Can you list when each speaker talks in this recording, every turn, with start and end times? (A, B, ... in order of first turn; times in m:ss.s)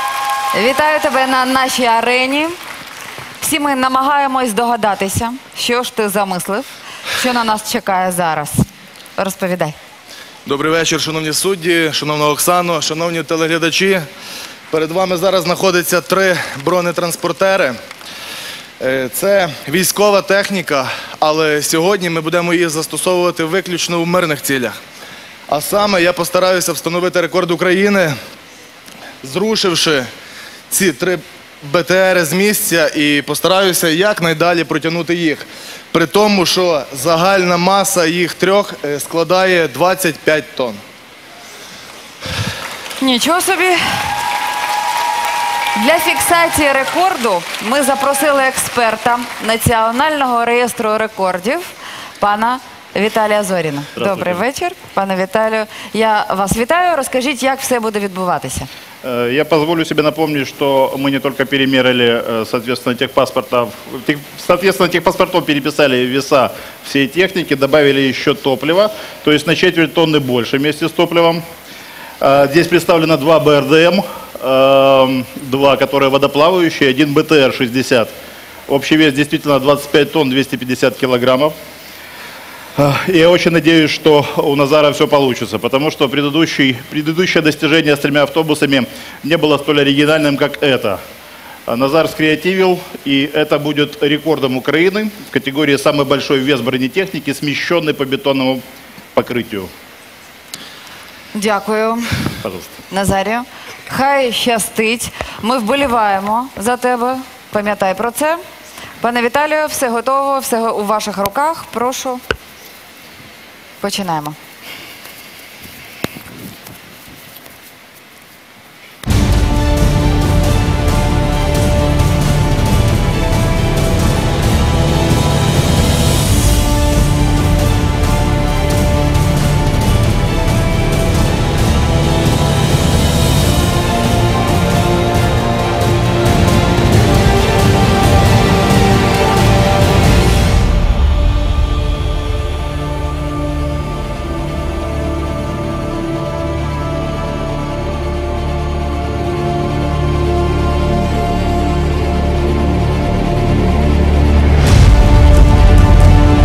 0:00.5-0:02.6 A
0:03.4-0:08.6 A
0:09.2-0:09.8 A
0:10.4-0:14.1 B
0:14.7-0:17.8 B
0:18.8-0:24.8 B
0:25.5-0:28.2 B
0:29.2-0:30.1 B
0:30.7-0:40.8 B
0:43.0-0:44.0 A
0:45.7-0:58.7 A
0:54.0-0:54.4 C
0:59.0-1:11.4 C
1:12.2-1:18.1 C
1:18.7-1:21.5 C
1:22.8-1:31.0 C
1:31.7-1:38.6 C
1:39.1-1:39.7 C
1:41.3-1:42.2 A
1:42.4-1:42.7 C
1:42.9-1:48.4 A
1:49.0-1:52.2 A
1:53.8-1:54.4 A